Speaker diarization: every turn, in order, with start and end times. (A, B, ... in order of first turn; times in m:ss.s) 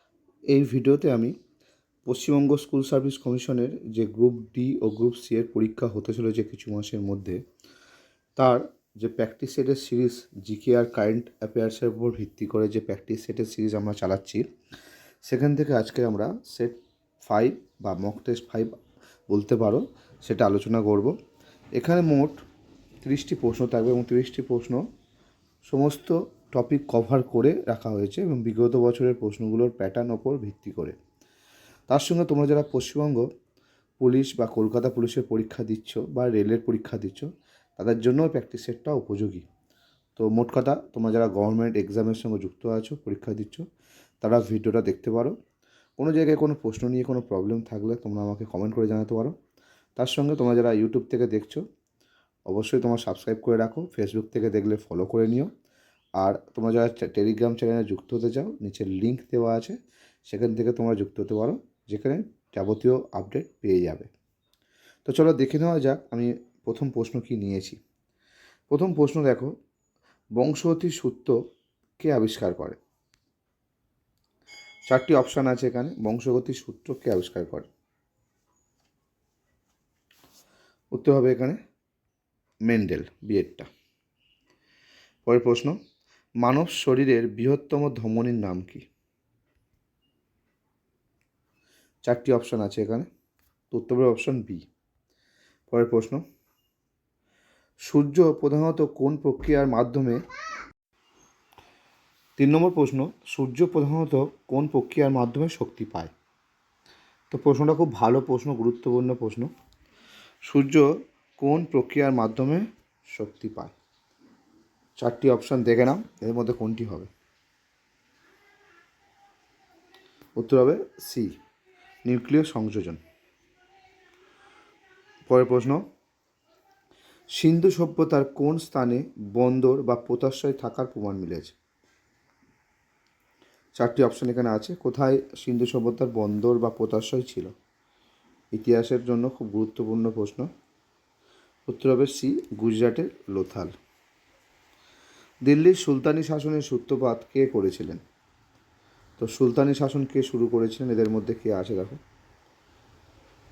0:00.5-0:01.4 A
0:02.0-0:07.4 A
0:08.4-0:14.5 A
0:15.2-0:18.7 A
0:19.3-0:21.1 A
0:21.8-0:22.4 A
0:23.0-0:24.8 A
0:25.6-0:31.0 A
0:31.9-0:33.3 A
0:34.0-0:39.4 A
0:40.2-0:43.6 A
0:44.2-0:45.4 A
0:46.0-0:49.3 A
0:50.0-0:51.6 A
0:52.5-0:55.5 A
0:56.2-1:04.1 A
1:05.0-1:07.8 A
1:08.7-1:09.5 A
1:10.4-1:11.4 A
1:12.0-1:12.8 A
1:14.9-1:17.7 A
1:20.9-1:21.6 A
1:22.7-1:23.7 A
1:25.2-1:25.8 A
1:26.4-1:28.9 A
1:32.0-1:33.1 A
1:33.7-1:34.7 A
1:35.7-1:36.2 A
1:37.8-1:40.2 A
1:42.4-1:46.1 A
1:47.3-1:49.5 A
1:50.4-1:53.8 A
1:55.0-1:57.1 A
2:00.4-2:01.3 A
2:02.0-2:03.0 A
2:05.3-2:05.8 A
2:07.3-2:11.5 A
2:13.8-2:17.5 A
2:18.5-2:20.5 A
2:21.7-2:23.7 A
2:25.4-2:28.0 A
2:29.2-2:32.0 A